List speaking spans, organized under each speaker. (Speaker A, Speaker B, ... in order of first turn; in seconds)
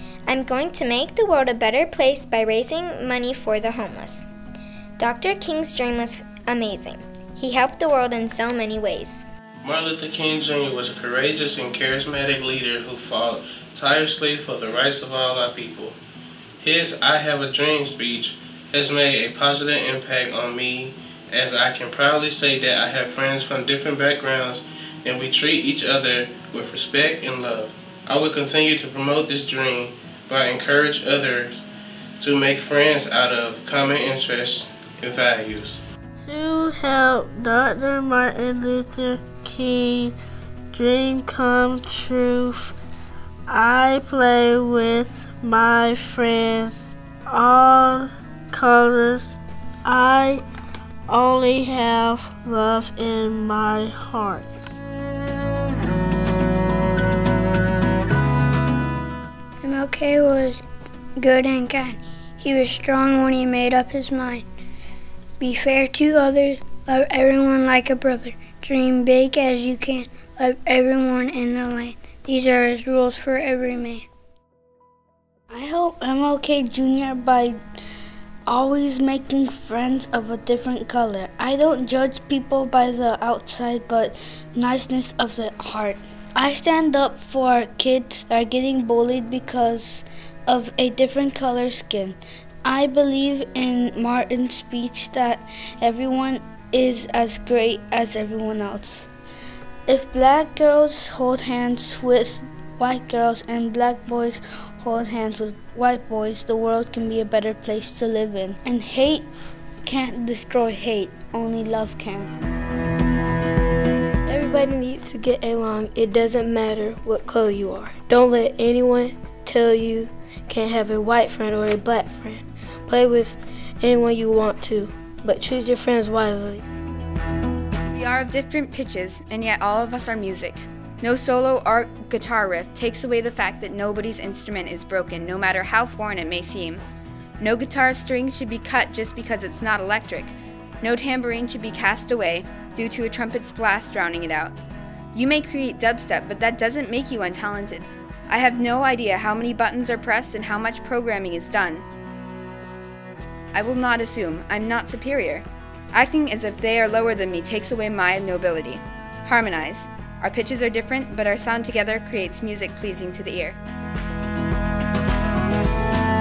Speaker A: 0.3-4.3, 5.0-9.3
Speaker B: 9.6-16.0, 16.6-31.6, 32.2-35.8
Speaker C: 36.2-40.1, 40.7-42.8, 43.5-50.4, 51.1-54.5
Speaker D: 59.6-60.6, 61.2-64.4, 65.4-74.0
Speaker E: 75.5-77.6, 78.5-99.1, 99.9-109.3, 109.8-112.3
Speaker F: 114.3-126.6
Speaker G: 127.9-136.8, 137.4-144.5, 145.1-151.8, 153.5-163.6